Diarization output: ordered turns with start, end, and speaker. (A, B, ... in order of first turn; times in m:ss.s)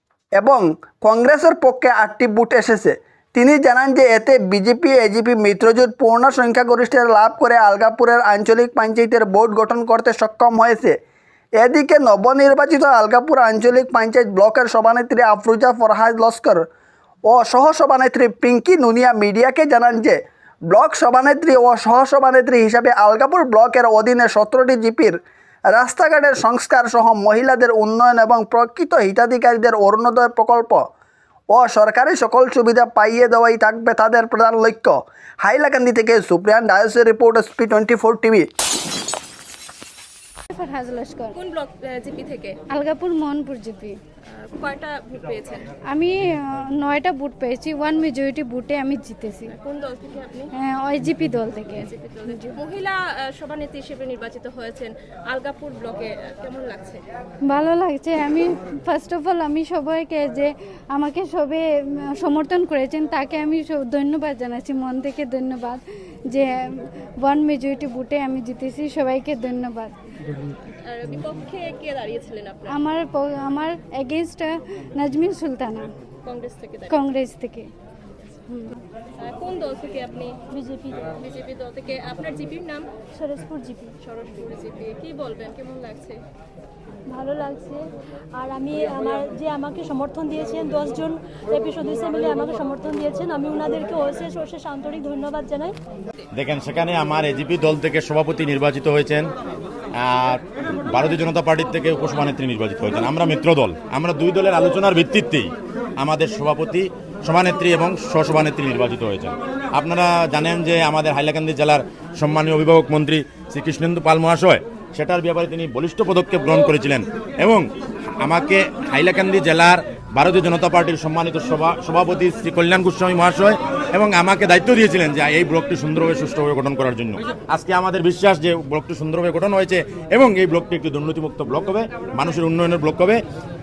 0:00.4-0:11.0 A
0:11.6-0:16.6 A
0:17.3-0:20.2 A
0:20.7-0:25.2 A
0:25.7-0:30.9 A
0:31.5-0:38.5 A
0:40.5-0:41.4 B
0:41.3-0:42.6 C
0:42.7-0:44.0 B
0:44.3-0:45.7 C
0:45.9-0:49.5 B
0:49.5-0:50.5 C
0:50.6-0:52.6 B
0:51.8-0:57.0 C
0:57.5-1:10.0 B
1:10.7-1:12.8 C
1:12.7-1:15.9 B
1:16.2-1:17.0 C
1:16.9-1:17.7 B
1:18.5-1:18.8 B
1:19.2-1:20.4 C
1:20.5-1:21.1 D
1:21.1-1:22.9 C
1:23.1-1:24.0 D
1:24.0-1:26.2 C
1:27.1-1:27.8 D
1:28.4-1:35.8 D
1:36.3-1:39.3 E
1:39.9-2:13.2 E